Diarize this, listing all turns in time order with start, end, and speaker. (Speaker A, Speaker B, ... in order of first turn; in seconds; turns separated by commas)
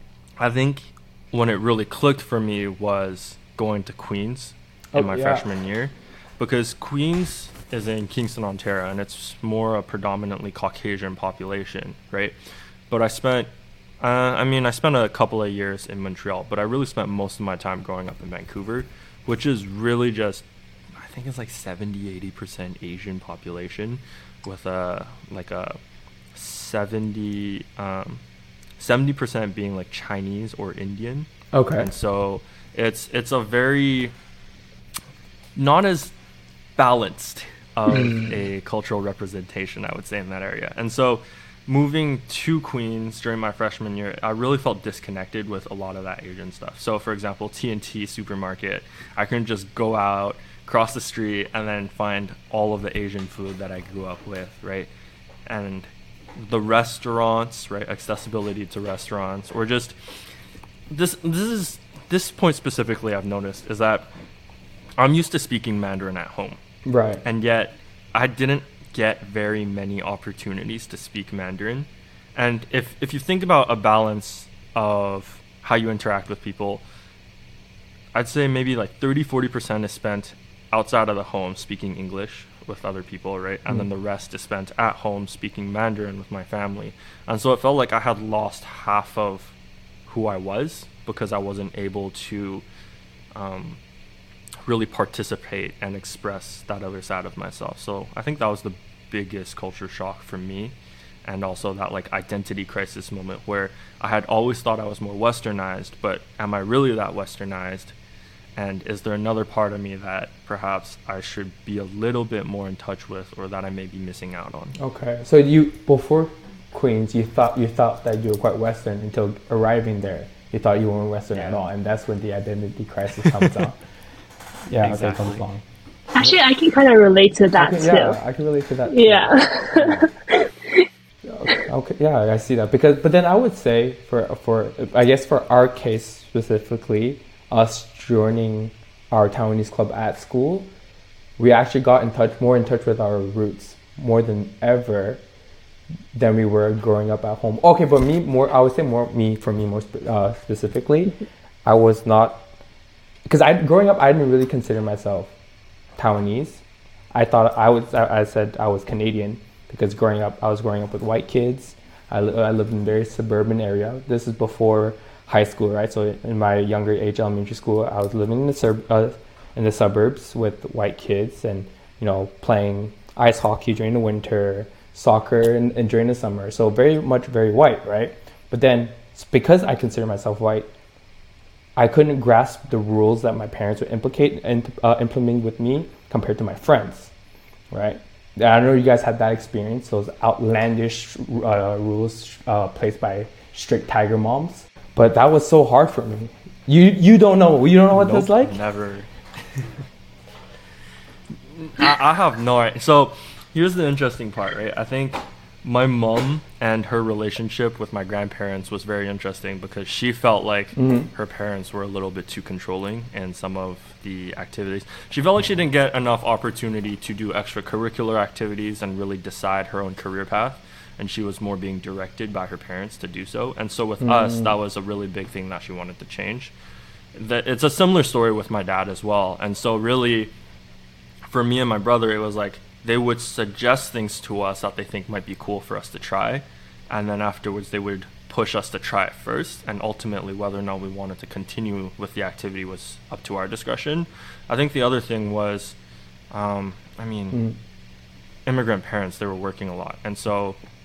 Speaker A: 0.4-12.3, Speaker B: 4.9-5.5, Speaker A: 12.9-25.8, Speaker A: 26.4-28.2, Speaker A: 28.8-34.1, Speaker B: 31.5-31.9, Speaker A: 35.6-36.1, Speaker A: 36.8-54.9, Speaker B: 37.9-38.3, Speaker A: 55.5-60.0, Speaker A: 60.9-64.1, Speaker A: 65.0-66.6, Speaker B: 66.8-67.2, Speaker A: 67.2-76.8, Speaker A: 78.1-89.6, Speaker A: 90.1-92.7, Speaker A: 93.3-93.8, Speaker A: 94.7-108.0, Speaker A: 108.6-114.8, Speaker B: 114.8-123.8, Speaker A: 123.2-123.5, Speaker B: 124.7-125.6, Speaker A: 124.8-125.4, Speaker C: 126.1-128.2, Speaker B: 127.5-130.1, Speaker C: 128.9-130.9, Speaker B: 131.2-140.7, Speaker B: 141.4-145.2, Speaker B: 146.1-152.5, Speaker B: 153.3-155.3, Speaker B: 156.0-180.7, Speaker B: 181.8-187.1, Speaker B: 187.7-198.6, Speaker A: 197.9-199.8, Speaker A: 201.6-226.5, Speaker B: 210.8-211.1, Speaker B: 224.0-224.6, Speaker A: 227.2-230.3, Speaker A: 231.3-245.8, Speaker A: 246.3-247.4, Speaker B: 247.3-247.6, Speaker A: 248.5-250.6